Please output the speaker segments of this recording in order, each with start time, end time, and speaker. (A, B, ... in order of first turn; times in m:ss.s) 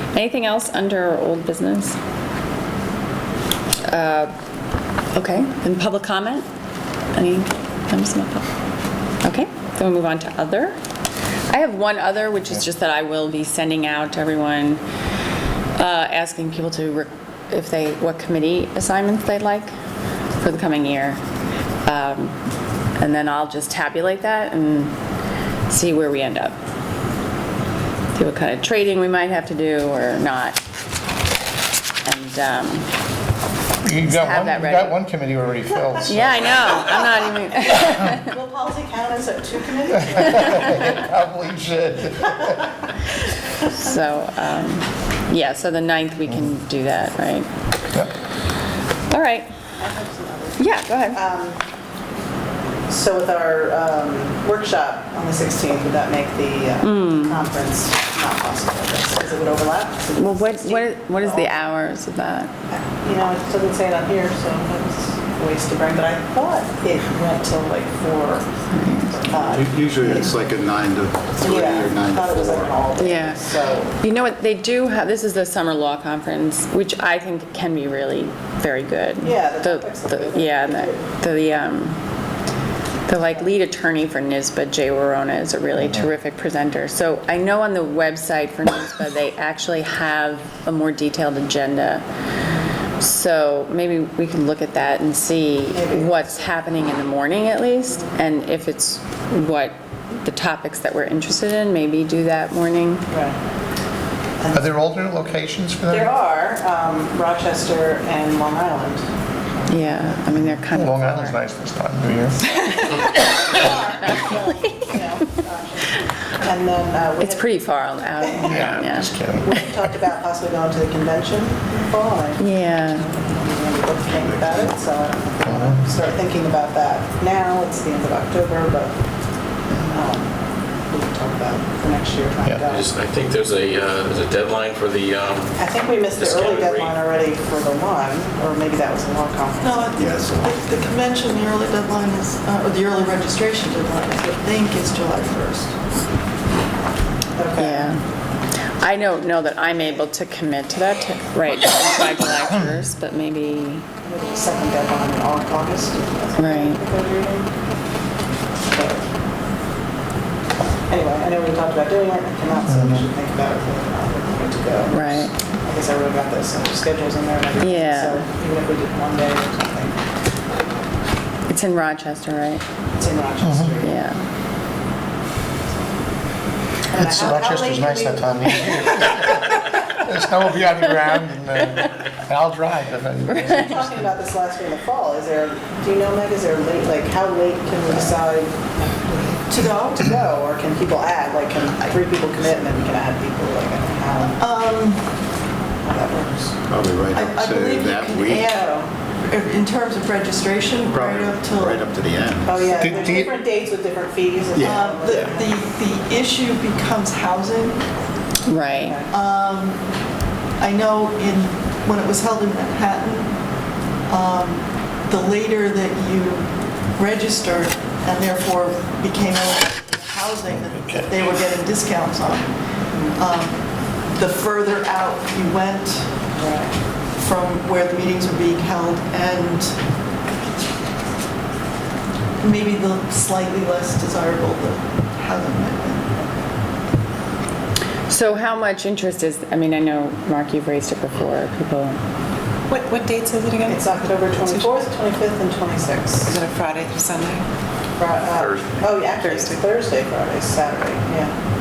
0:00.1-0:02.0 A
0:03.8-0:04.3 A
0:05.1-0:06.4 A
0:07.1-0:08.4 A
0:09.2-0:10.8 A
0:11.5-0:14.8 A
0:15.8-0:19.7 A
0:20.4-0:21.2 A
0:21.8-0:22.4 A
0:23.0-0:24.9 A
0:25.7-0:26.6 A
0:28.1-0:30.6 A
0:32.0-0:32.9 A
0:33.8-0:36.9 B
0:34.0-0:35.0 A
0:36.0-0:38.3 A
0:38.3-0:40.8 C
0:40.1-0:42.7 B
0:43.6-0:47.5 A
0:49.1-0:49.5 A
0:49.8-0:51.6 C
0:50.6-0:51.2 A
0:52.9-1:01.6 C
0:56.8-0:57.5 A
1:00.2-1:02.5 A
1:02.7-1:08.5 C
1:08.7-1:09.2 A
1:09.1-1:09.7 C
1:09.3-1:12.9 D
1:11.4-1:13.9 C
1:13.0-1:22.0 A
1:19.2-1:21.0 C
1:23.1-1:32.0 A
1:33.0-1:43.1 A
1:35.7-1:36.1 C
1:43.1-1:43.4 C
1:44.4-1:44.6 C
1:44.5-1:46.1 B
1:45.9-1:49.0 C
1:49.6-1:50.1 C
1:49.7-1:51.4 A
1:50.4-1:52.5 B
1:53.5-1:57.4 C
1:57.2-1:59.6 A
1:58.2-1:58.6 C
1:58.4-1:59.7 B
1:59.4-2:02.4 C
2:02.4-2:03.1 A
2:03.0-2:08.9 C
2:04.0-2:04.9 D
2:05.4-2:05.8 B
2:09.7-2:10.1 B
2:09.9-2:10.3 C
2:10.9-2:12.8 C
2:12.6-2:17.0 E
2:15.6-2:19.9 C
2:19.5-2:25.8 F
2:20.0-2:21.0 D
2:27.3-2:27.8 C
2:27.6-2:28.0 A
2:28.8-2:33.8 A
2:34.0-2:37.6 C
2:36.4-2:36.8 A
2:38.6-2:39.0 C
2:40.9-2:50.0 C
2:42.7-2:43.1 B
2:44.9-2:45.3 A
2:47.6-2:48.2 A
2:51.5-2:52.6 A
2:52.9-2:53.9 C
2:53.4-2:53.7 B
2:53.8-2:54.2 A
2:56.9-2:59.0 C
2:56.9-3:04.1 B
3:03.3-3:03.9 A
3:03.5-3:14.4 C
3:09.5-3:10.1 F
3:14.4-3:15.2 F
3:15.8-3:16.5 C
3:16.6-3:18.5 D
3:17.1-3:21.9 F
3:18.5-3:18.9 C
3:20.9-3:22.9 D
3:22.4-3:25.6 C
3:22.7-3:23.3 B
3:24.5-3:25.3 D
3:24.6-3:27.8 F
3:28.5-3:29.0 A
3:28.7-3:29.1 C
3:29.1-3:29.8 F
3:30.6-3:33.4 F
3:34.1-3:42.6 F
3:40.5-3:41.3 B
3:43.1-3:46.3 F
3:46.3-3:46.7 C
3:47.2-3:49.8 F
3:52.4-3:56.2 F
3:58.1-4:02.0 A
4:02.7-4:04.7 G
4:03.6-4:06.4 C
4:06.3-4:07.4 G
4:08.0-4:11.3 C
4:08.3-4:09.0 E
4:09.2-4:09.7 G